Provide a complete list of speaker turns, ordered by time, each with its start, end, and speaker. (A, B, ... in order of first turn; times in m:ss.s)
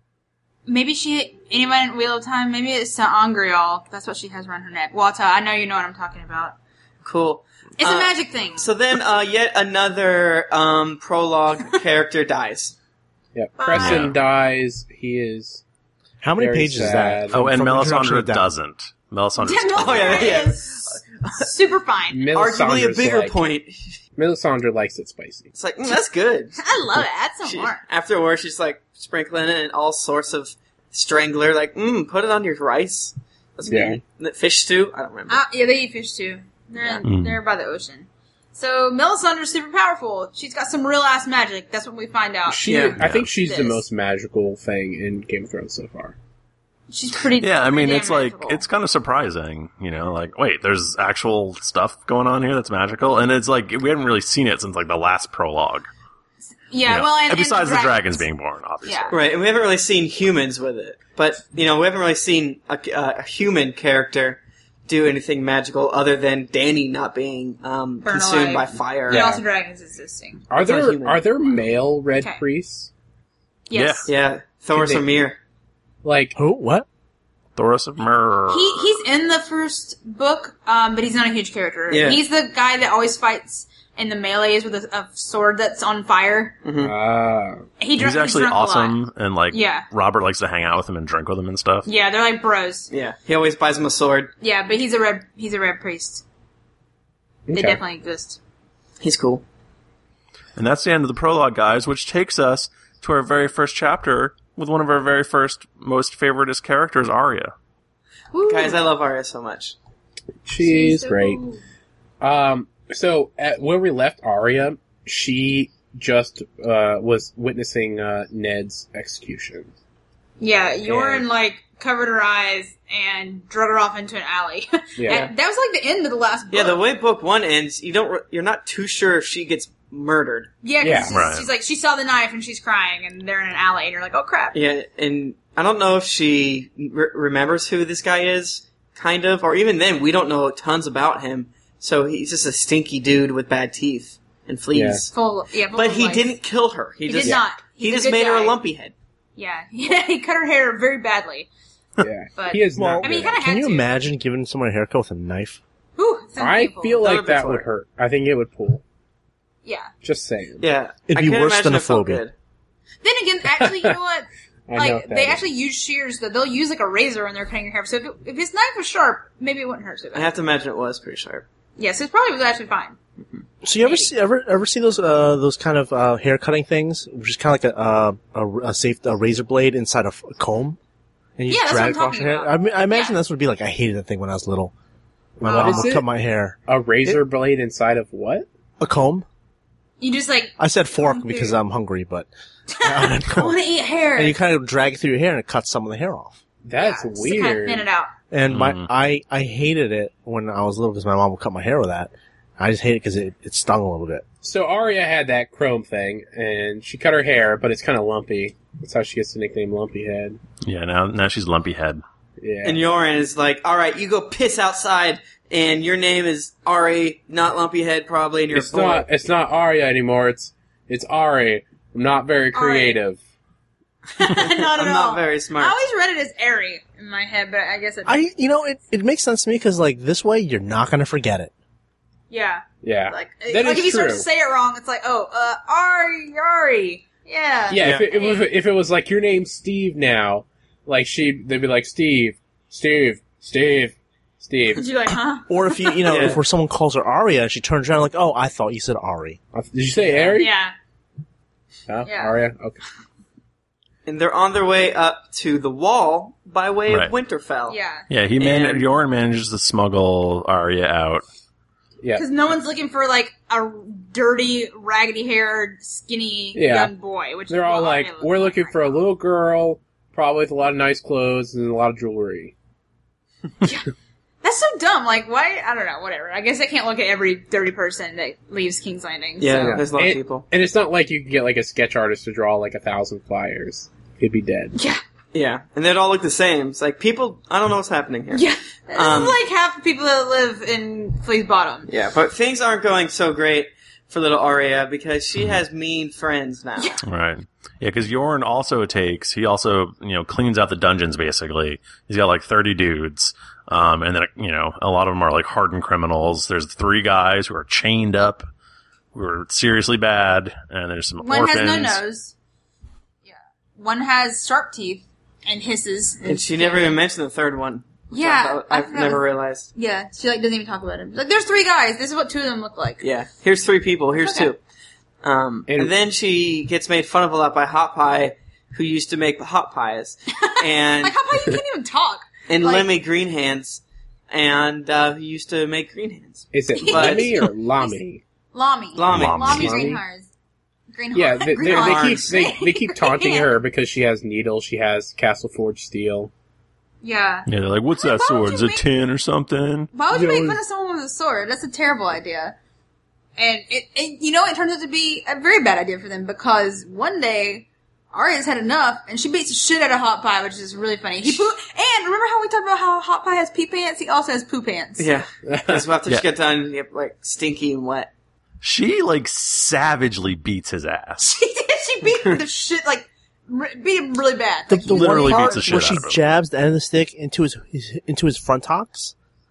0:00.6-0:06.6 A
0:07.0-0:12.7 B
0:07.8-0:08.7 A
0:13.3-0:15.6 C
0:13.6-0:14.1 A
0:13.7-0:14.2 D
0:16.2-0:18.5 E
0:16.4-0:17.4 C
0:17.3-0:20.4 D
0:19.4-0:22.3 A
0:19.7-0:21.5 B
0:22.1-0:23.4 C
0:22.3-0:24.0 B
0:24.2-0:25.5 C
0:25.5-0:26.6 B
0:26.6-0:27.8 A
0:27.4-0:35.4 B
0:33.7-0:34.0 C
0:35.3-0:43.8 A
0:37.0-0:37.4 D
0:42.5-0:46.2 C
0:42.7-0:43.0 B
0:43.0-0:43.3 D
0:46.9-0:48.6 A
0:47.3-0:55.9 D
0:56.7-0:58.2 A
0:56.8-0:59.2 D
0:58.8-0:59.2 A
0:59.1-1:09.4 B
1:08.0-1:10.5 A
1:09.1-1:09.4 C
1:10.5-1:12.9 C
1:10.5-1:11.2 B
1:13.7-1:14.1 A
1:13.7-1:14.1 D
1:14.1-1:15.4 B
1:14.7-1:15.0 C
1:16.0-1:16.4 C
1:16.4-1:16.8 E
1:17.6-1:18.9 D
1:18.5-1:26.6 A
1:21.9-1:22.2 B
1:26.6-1:26.9 B
1:26.8-1:27.6 C
1:27.8-1:29.9 A
1:28.0-1:31.9 D
1:31.8-1:32.9 A
1:32.9-1:34.3 B
1:34.4-1:36.2 A
1:37.5-1:37.8 C
1:37.5-1:38.4 A
1:39.0-1:39.4 B
1:40.6-1:47.5 D
1:48.3-1:48.8 A
1:48.4-1:49.8 B
1:50.4-1:51.4 C
1:50.6-1:51.6 A
1:52.2-1:59.7 C
2:00.4-2:06.8 A
2:00.8-2:01.2 C
2:05.0-2:05.2 C
2:06.5-2:10.5 B
2:10.6-2:14.6 A
2:10.8-2:11.1 C
2:11.1-2:11.5 D
2:14.5-2:25.1 B
2:24.7-2:25.0 C
2:25.1-2:26.3 A
2:25.7-2:28.9 B
2:27.0-2:28.6 A
2:29.4-2:31.5 A
2:32.0-2:33.4 C
2:32.4-2:33.9 A
2:32.7-2:35.6 E
2:36.0-2:37.0 A
2:36.4-2:38.8 C
2:37.0-2:37.7 B
2:39.6-2:39.9 A
2:40.0-2:40.6 C
2:40.6-2:42.3 B
2:41.1-2:42.2 E
2:43.0-2:50.3 A
2:43.6-2:44.0 C
2:44.7-2:45.4 C
2:50.1-2:51.4 B
2:51.8-2:53.0 A
2:53.6-3:00.8 E
2:53.8-2:54.1 A
3:01.4-3:04.7 E
3:01.5-3:03.2 A
3:05.4-3:07.2 E
3:05.4-3:06.0 A
3:05.5-3:06.0 C
3:06.7-3:08.4 C
3:08.8-3:09.2 E
3:10.0-3:11.6 A
3:10.6-3:12.3 E
3:12.7-3:14.4 A
3:12.8-3:13.6 E
3:14.1-3:16.4 E
3:16.6-3:17.9 C
3:16.8-3:18.1 A
3:18.3-3:24.2 E
3:18.5-3:18.9 D
3:24.4-3:30.4 C
3:30.6-3:32.0 D
3:32.4-3:32.8 C
3:32.6-3:39.0 B
3:38.5-3:43.2 C
3:42.5-3:43.0 A
3:44.2-3:48.2 A
3:44.3-3:45.8 B
3:48.0-3:51.5 E
3:52.3-3:58.5 A
3:52.8-3:54.3 C
3:57.7-4:04.8 C
3:57.8-3:58.1 B
4:04.7-4:06.2 A
4:05.5-4:09.4 E
4:06.0-4:06.4 B
4:09.5-4:10.5 C
4:10.3-4:10.7 A
4:11.9-4:12.8 C
4:12.0-4:12.4 A
4:14.0-4:17.8 B
4:17.7-4:18.1 A
4:18.1-4:21.2 D
4:18.4-4:18.9 B
4:22.1-4:28.8 A
4:26.5-4:26.9 C
4:27.5-4:32.5 C
4:33.6-4:33.9 A
4:34.4-4:39.8 A
4:39.4-4:40.5 B
4:39.6-4:44.7 C
4:44.7-4:45.0 A
4:45.3-4:49.4 B
4:48.3-4:51.9 A
4:51.9-4:57.0 B
4:57.0-5:08.5 D
5:09.1-5:12.0 D
5:11.2-5:12.3 A
5:13.2-5:17.0 A
5:16.2-5:19.7 B
5:18.1-5:23.0 A
5:23.0-5:24.6 B
5:24.1-5:24.5 A
5:25.2-5:31.2 B
5:25.7-5:25.9 C
5:30.3-5:32.9 A
5:32.5-5:37.4 B
5:36.5-5:38.2 C
5:36.7-5:38.0 A
5:38.5-5:40.3 A
5:38.9-5:39.9 B
5:39.1-5:39.8 D
5:39.5-5:40.0 C
5:40.9-5:43.6 A
5:41.1-5:46.3 C
5:41.6-5:42.4 B
5:47.0-5:48.8 A
5:47.5-5:49.9 D
5:49.9-5:52.6 A
5:50.1-5:50.6 C
5:53.4-6:05.1 A
6:05.0-6:08.1 B
6:05.4-6:05.8 C
6:08.6-6:11.4 D
6:11.2-6:15.9 A
6:14.7-6:19.1 E
6:14.8-6:16.2 D